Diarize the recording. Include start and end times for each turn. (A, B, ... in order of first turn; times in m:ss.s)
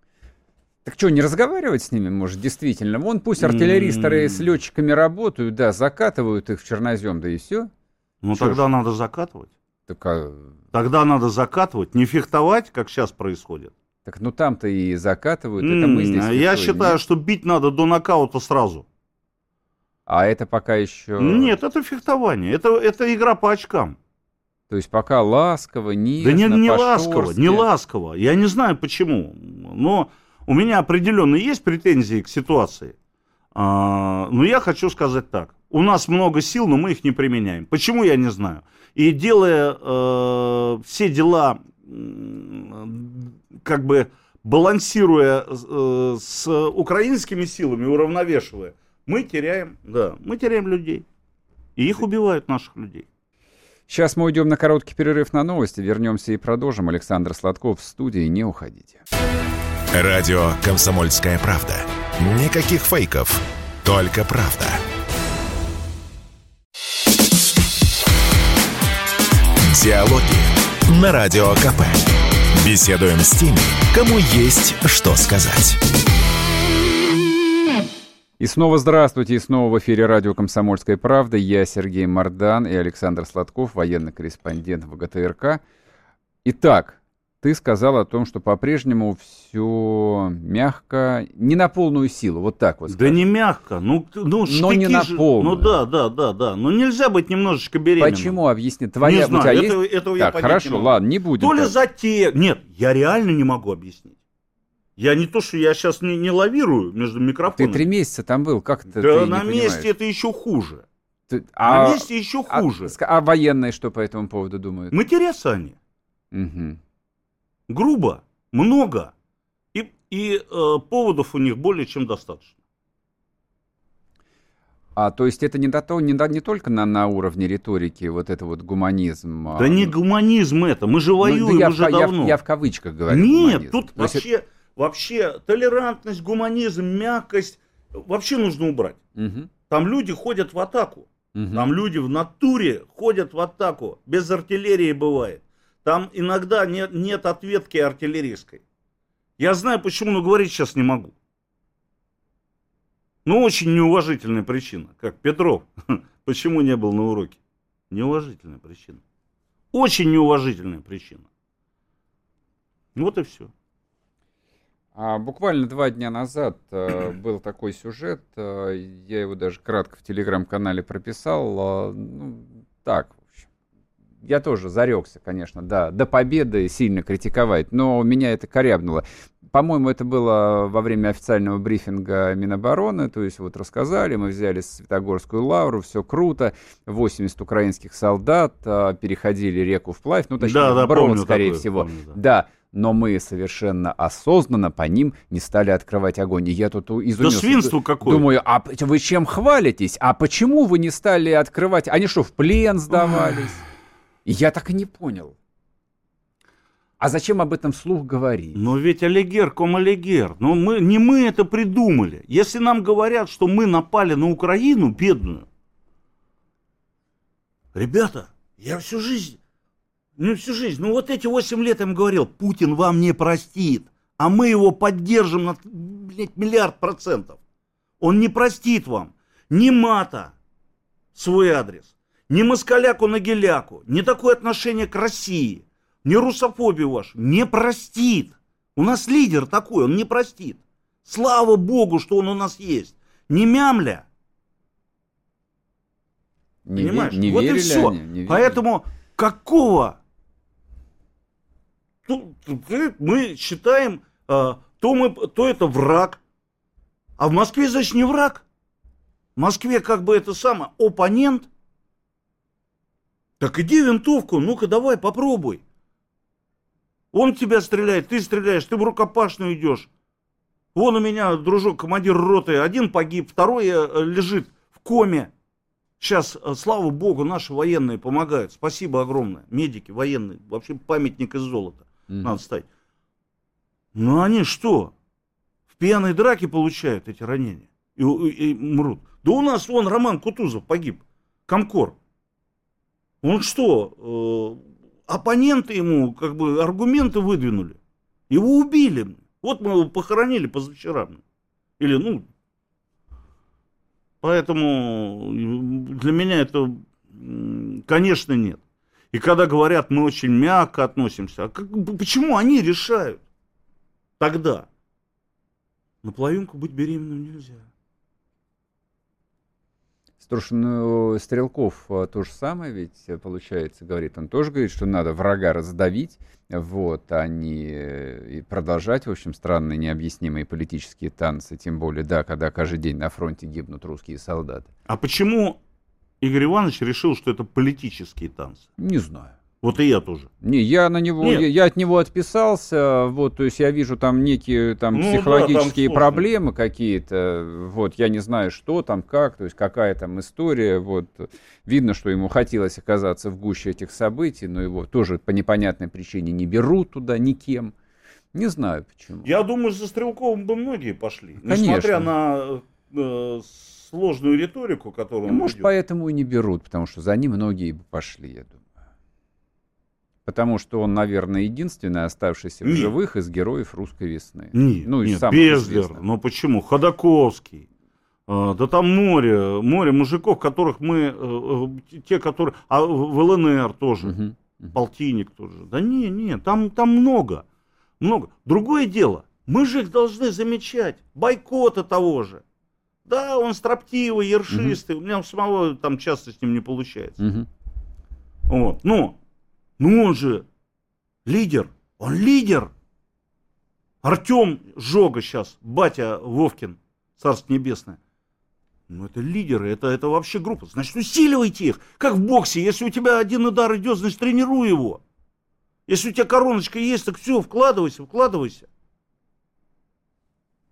0:00.8-0:07.7 A
0:03.4-0:04.6 B
0:08.2-0:09.5 B
0:08.3-0:08.6 A
0:09.9-0:10.6 A
0:10.7-0:13.7 B
0:14.0-0:17.0 A
0:15.6-0:18.9 B
0:20.1-0:21.6 A
0:21.2-0:24.0 B
0:24.7-0:27.7 A
0:26.2-0:33.0 B
0:33.5-0:51.1 B
0:51.8-0:53.1 B
0:53.9-0:59.0 A
0:59.9-1:04.8 C
1:09.6-1:15.8 C
1:18.4-1:25.6 A
1:26.4-1:33.2 A
1:32.9-1:38.4 B
1:34.5-1:35.8 A
1:38.0-1:41.7 A
1:39.0-1:44.2 B
1:45.0-1:47.9 B
1:47.5-1:49.9 A
1:49.0-1:50.9 B
1:51.3-1:55.0 A
1:51.6-1:53.0 B
1:54.9-1:55.8 B
1:56.3-1:56.8 A
1:57.7-1:59.1 B
1:59.7-2:02.6 B
2:05.0-2:10.0 A
2:09.6-2:12.4 B
2:11.2-2:14.2 A
2:13.1-2:19.0 B
2:19.2-2:19.5 A
2:19.7-2:28.6 B
2:21.4-2:21.7 A
2:29.4-2:31.2 B
2:33.2-2:37.4 B
2:37.9-2:39.0 B
2:39.7-2:41.3 B
2:43.0-2:43.5 B
2:45.0-2:53.4 A
2:54.2-3:23.6 A
3:10.4-3:12.2 B
3:17.2-3:18.3 B
3:23.0-3:23.5 B
3:24.3-3:25.3 A
3:27.0-3:28.6 A
3:28.6-3:35.5 B
3:37.7-3:39.4 B
3:40.2-3:47.4 B
3:48.0-3:50.3 B
3:51.1-4:04.1 B
4:06.7-4:08.6 A
4:06.8-4:10.0 B
4:12.0-4:16.2 B
4:17.2-4:18.4 B
4:19.4-4:21.5 B
4:23.4-4:25.6 B
4:27.1-4:29.9 B
4:30.7-4:35.3 B
4:36.0-4:42.7 B
4:42.1-4:42.3 A
4:44.0-4:44.9 B
4:45.7-4:52.0 B
4:53.2-4:57.8 B
4:58.3-5:01.2 B
5:01.8-5:02.3 B
5:04.2-5:08.6 B
5:09.1-5:13.2 B
5:14.2-5:14.7 B
5:16.0-5:17.7 B
5:20.2-5:34.7 A
5:34.9-5:35.6 B
5:36.2-5:38.7 B
5:38.8-5:39.3 A
5:39.6-5:40.3 B
5:40.4-5:57.7 A
5:41.2-5:41.5 B
5:44.9-5:46.3 B
5:58.3-5:59.3 A
5:59.2-6:05.7 B
6:01.4-6:02.1 A
6:05.3-6:08.6 A
6:10.3-6:16.0 A
6:12.6-6:12.9 B
6:14.5-6:17.7 B
6:18.3-6:24.2 B
6:24.0-6:24.7 A
6:24.7-6:27.4 B
6:28.0-6:32.4 B
6:33.1-6:37.2 B
6:34.5-6:34.8 A
6:37.2-6:37.5 A
6:38.5-6:39.2 B
6:39.8-6:40.5 B
6:41.2-6:42.7 B
6:44.0-6:48.0 B
6:48.9-6:55.0 B
6:55.9-6:58.7 B